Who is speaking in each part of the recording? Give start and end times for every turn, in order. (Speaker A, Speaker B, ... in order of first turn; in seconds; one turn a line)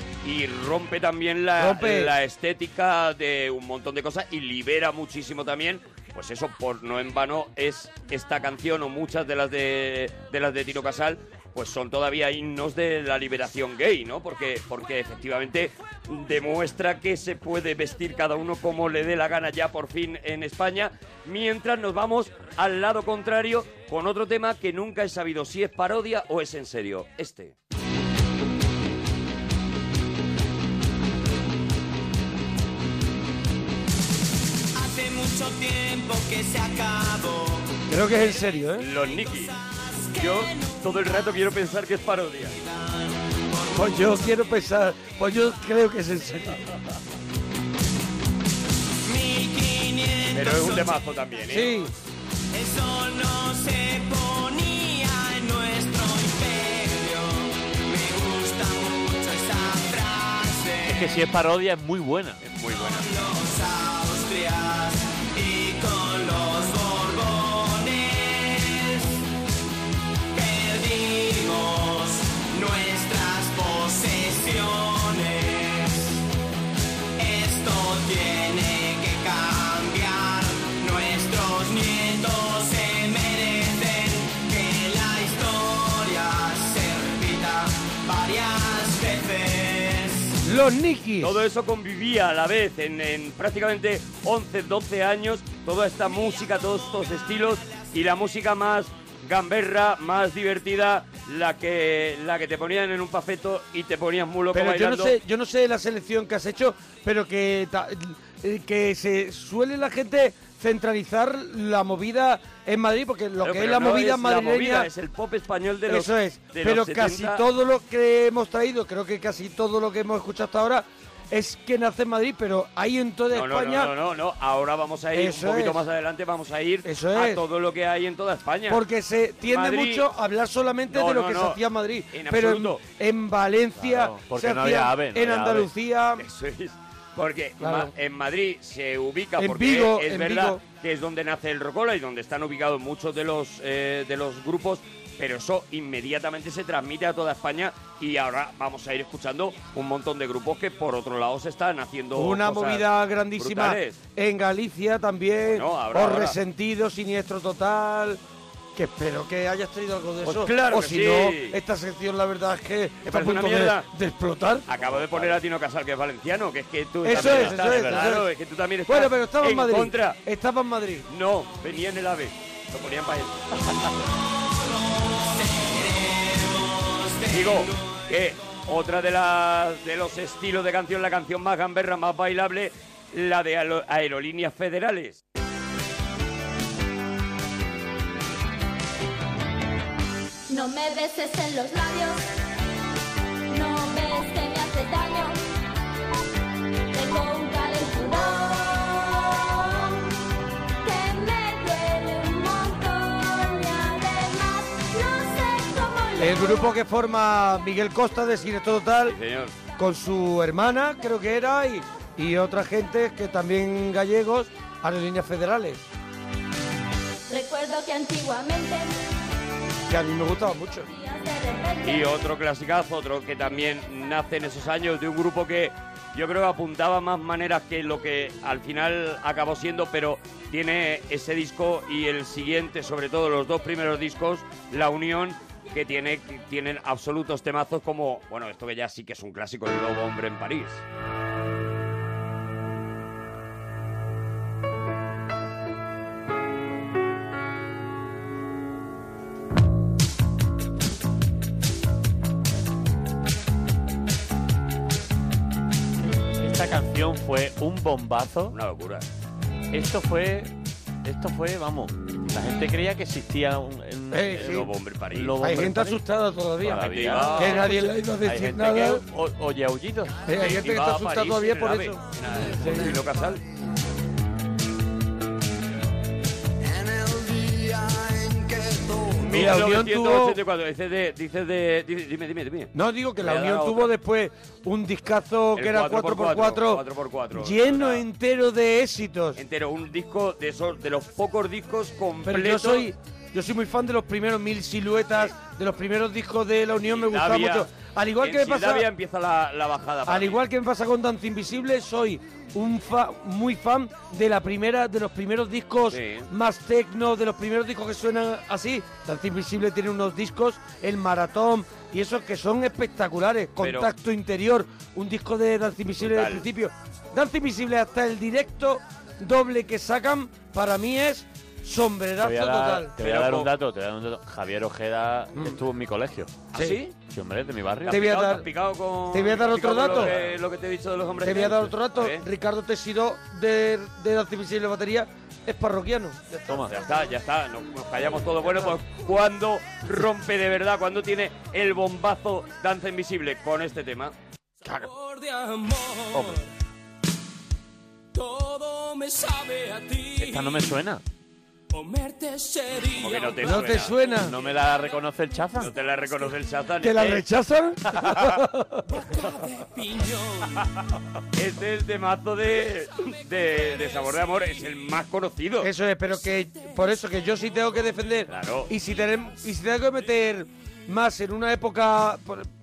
Speaker A: 0.2-27.6
Speaker B: 1.6-2.1
Speaker C: 34.8-37.8
Speaker B: 37.9-38.9
Speaker A: 38.8-39.6
Speaker C: 39.0-41.3
Speaker A: 40.2-42.6
Speaker C: 42.5-44.1
Speaker B: 43.8-46.6
Speaker C: 49.0-51.0
Speaker A: 50.3-51.8
Speaker B: 51.5-51.9
Speaker C: 52.5-61.1
Speaker D: 60.9-62.4
Speaker A: 62.4-63.1
Speaker C: 62.7-69.2
Speaker C: 70.3-76.2
Speaker C: 77.2-90.4
Speaker B: 90.4-91.5
Speaker A: 91.2-105.2
Speaker C: 96.1-97.9
Speaker B: 104.5-114.9
Speaker A: 113.4-117.4
Speaker B: 115.9-123.9
Speaker A: 123.3-128.8
Speaker B: 125.1-125.8
Speaker B: 126.8-127.4
Speaker B: 128.7-136.2
Speaker A: 129.4-130.1
Speaker A: 130.9-131.6
Speaker A: 132.1-132.8
Speaker D: 133.8-135.7
Speaker A: 136.2-154.0
Speaker B: 137.6-137.9
Speaker B: 139.4-140.6
Speaker B: 152.2-158.2
Speaker A: 155.5-156.4
Speaker B: 158.8-165.3
Speaker A: 160.2-161.6
Speaker A: 163.1-163.9
Speaker A: 164.7-170.2
Speaker B: 167.0-168.3
Speaker D: 167.1-168.1
Speaker B: 168.9-171.1
Speaker A: 171.1-173.4
Speaker C: 174.2-178.0
Speaker A: 177.3-185.2
Speaker E: 190.5-192.2
Speaker E: 193.5-195.4
Speaker E: 196.9-200.1
Speaker E: 200.8-206.8
Speaker B: 206.2-209.2
Speaker A: 209.1-209.6
Speaker B: 209.8-215.9
Speaker E: 217.3-219.0
Speaker B: 219.9-220.9
Speaker E: 220.9-222.1
Speaker A: 221.8-240.8
Speaker D: 256.4-258.6
Speaker A: 258.5-259.1
Speaker D: 259.7-260.5
Speaker D: 261.0-266.0
Speaker B: 264.1-264.7
Speaker A: 264.4-265.4
Speaker B: 265.4-269.0
Speaker D: 266.6-270.2
Speaker A: 266.7-267.8
Speaker B: 270.2-273.0
Speaker A: 270.3-273.4
Speaker A: 279.2-283.9
Speaker B: 279.3-280.4
Speaker B: 282.7-289.4
Speaker A: 285.6-288.1
Speaker A: 289.4-292.9
Speaker B: 292.2-298.9
Speaker A: 296.9-300.4
Speaker B: 300.1-322.9
Speaker A: 305.9-306.3
Speaker A: 313.6-313.9
Speaker A: 316.0-316.5
Speaker D: 322.2-328.1
Speaker A: 323.0-323.5
Speaker B: 325.3-325.6
Speaker A: 326.5-326.9
Speaker B: 326.5-326.8
Speaker A: 327.8-332.2
Speaker B: 327.9-328.5
Speaker B: 329.1-330.2
Speaker D: 330.0-330.3
Speaker B: 331.2-336.9
Speaker D: 336.5-336.7
Speaker A: 336.7-344.1
Speaker D: 350.1-351.0
Speaker A: 352.9-354.1
Speaker B: 353.4-354.4
Speaker D: 354.2-355.7
Speaker A: 355.6-357.2
Speaker B: 356.8-358.8
Speaker A: 361.4-365.7
Speaker B: 365.6-372.5
Speaker A: 368.3-368.7